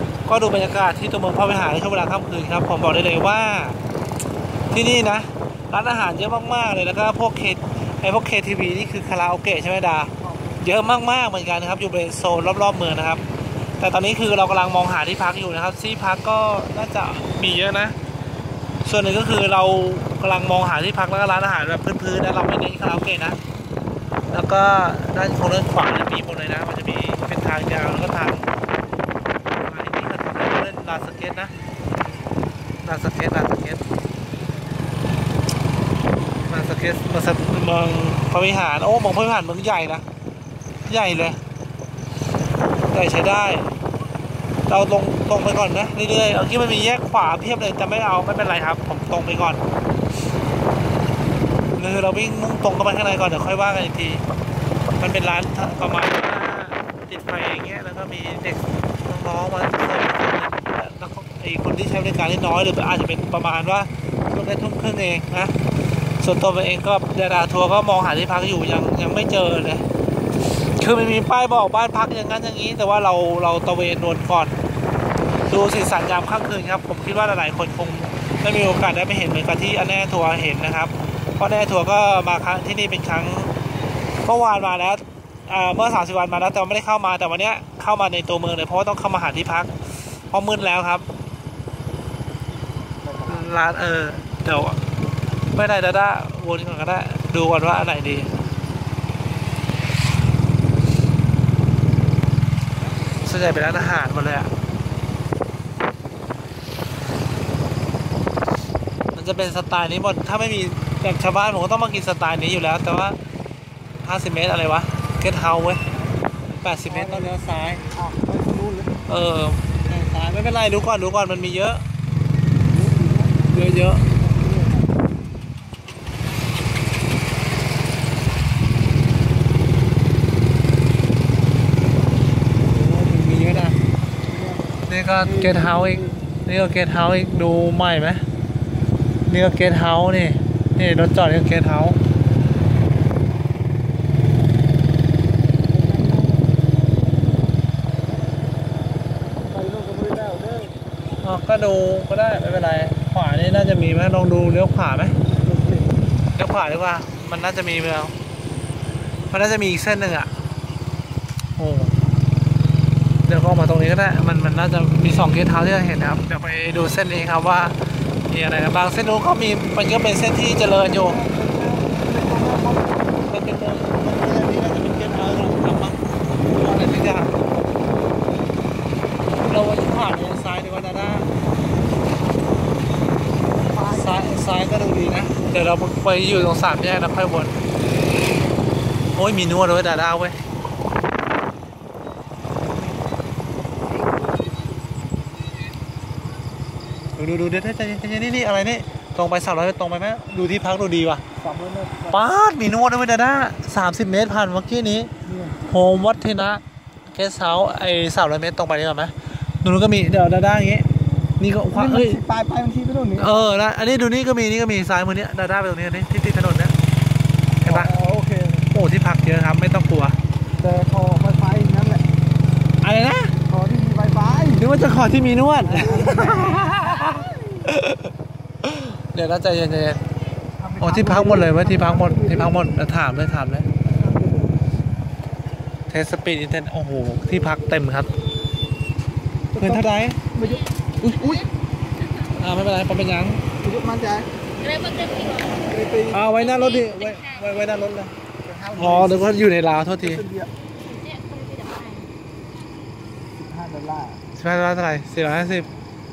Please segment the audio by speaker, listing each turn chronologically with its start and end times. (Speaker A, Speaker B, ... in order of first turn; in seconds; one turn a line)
Speaker A: 0.2-3.8
Speaker A: 4.7-13.2
Speaker A: 13.8-17.9
Speaker A: 18.8-23.4
Speaker A: 24.3-28.5
Speaker A: 29.5-31.5
Speaker A: 32.8-33.8
Speaker A: 36.5-40.0
Speaker A: 40.9-41.4
Speaker A: 42.9-43.7
Speaker A: 44.7-49.6
Speaker A: 51.8-54.2
Speaker A: 55.0-65.5
Speaker A: 66.2-69.8
Speaker A: 70.4-74.5
Speaker A: 75.5-83.5
Speaker A: 84.2-89.7
Speaker A: 90.3-91.1
Speaker A: 93.2-94.8
Speaker A: 95.5-98.4
Speaker A: 103.2-104.5
Speaker A: 109.1-113.2
Speaker A: 114.0-115.8
Speaker A: 116.6-117.8
Speaker B: 116.8-119.0
Speaker A: 119.1-121.8
Speaker B: 122.6-123.6
Speaker A: 123.4-124.1
Speaker B: 124.2-124.9
Speaker A: 132.7-133.8
Speaker B: 134.2-136.2
Speaker A: 134.8-138.2
Speaker A: 139.2-142.0
Speaker B: 145.7-146.6
Speaker B: 149.5-150.8
Speaker A: 151.2-155.2
Speaker B: 155.3-155.9
Speaker A: 156.3-158.1
Speaker A: 159.3-160.3
Speaker A: 161.6-161.9
Speaker A: 163.2-167.8
Speaker A: 168.3-171.2
Speaker B: 170.7-173.0
Speaker A: 173.3-177.3
Speaker A: 179.3-181.3
Speaker B: 183.6-184.1
Speaker A: 183.8-187.5
Speaker A: 189.1-190.4
Speaker A: 197.1-201.2
Speaker B: 201.4-202.2
Speaker A: 202.1-205.1
Speaker B: 205.2-205.6
Speaker A: 205.6-212.2
Speaker B: 211.7-213.6
Speaker A: 213.2-216.8
Speaker A: 217.6-217.9
Speaker B: 217.6-218.7
Speaker A: 218.7-220.2
Speaker B: 220.6-222.0
Speaker A: 222.8-223.3
Speaker B: 223.5-224.7
Speaker A: 224.5-228.1
Speaker B: 225.6-226.8
Speaker A: 228.6-230.0
Speaker B: 230.6-232.7
Speaker A: 230.8-233.7
Speaker B: 233.8-234.6
Speaker A: 235.9-238.1
Speaker B: 239.5-241.4
Speaker A: 239.6-240.2
Speaker C: 240.3-241.5
Speaker A: 242.3-243.4
Speaker B: 243.6-244.3
Speaker C: 244.6-247.6
Speaker B: 245.6-246.2
Speaker A: 246.1-248.1
Speaker B: 248.4-250.5
Speaker A: 248.8-250.2
Speaker C: 250.8-252.1
Speaker B: 253.3-254.2
Speaker A: 254.3-255.7